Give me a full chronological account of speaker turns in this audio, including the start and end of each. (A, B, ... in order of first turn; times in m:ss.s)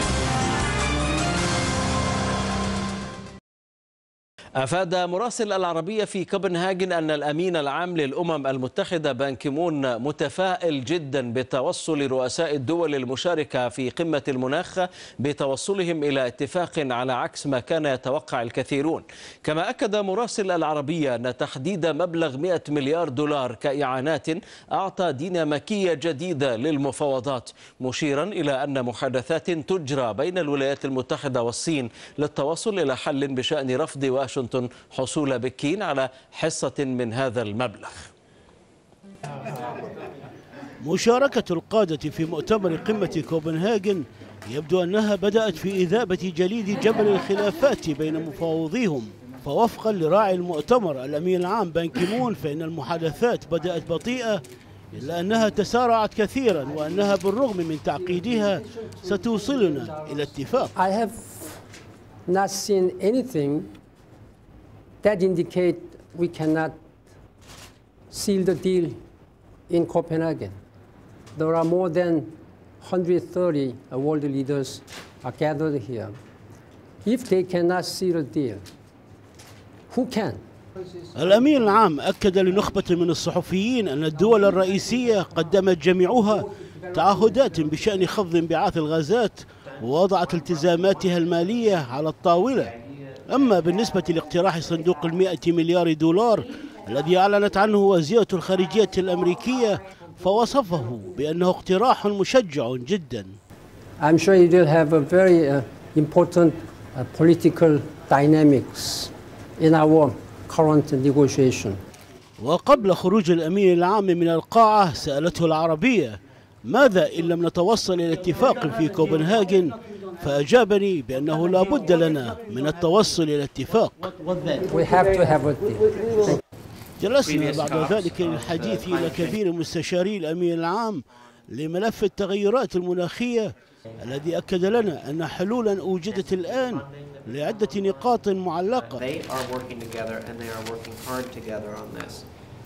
0:04.6-0:38.1 A
0:40.8-1:00.7 B
0:58.4-0:59.9 C
1:00.7-1:01.6 C
1:02.2-1:03.7 C
1:05.0-1:06.8 C
1:08.1-1:09.0 C
1:09.7-1:10.6 C
1:11.3-1:16.2 C
1:17.0-1:18.6 C
1:19.9-1:20.4 C
1:21.1-1:32.7 B
1:26.4-1:27.5 C
1:29.6-1:35.3 D
1:33.3-1:43.4 B
1:44.0-1:51.8 C
1:52.4-2:04.1 B
2:04.6-2:06.4 C
2:07.0-2:19.0 B
2:07.2-2:11.8 D
2:13.8-2:22.3 D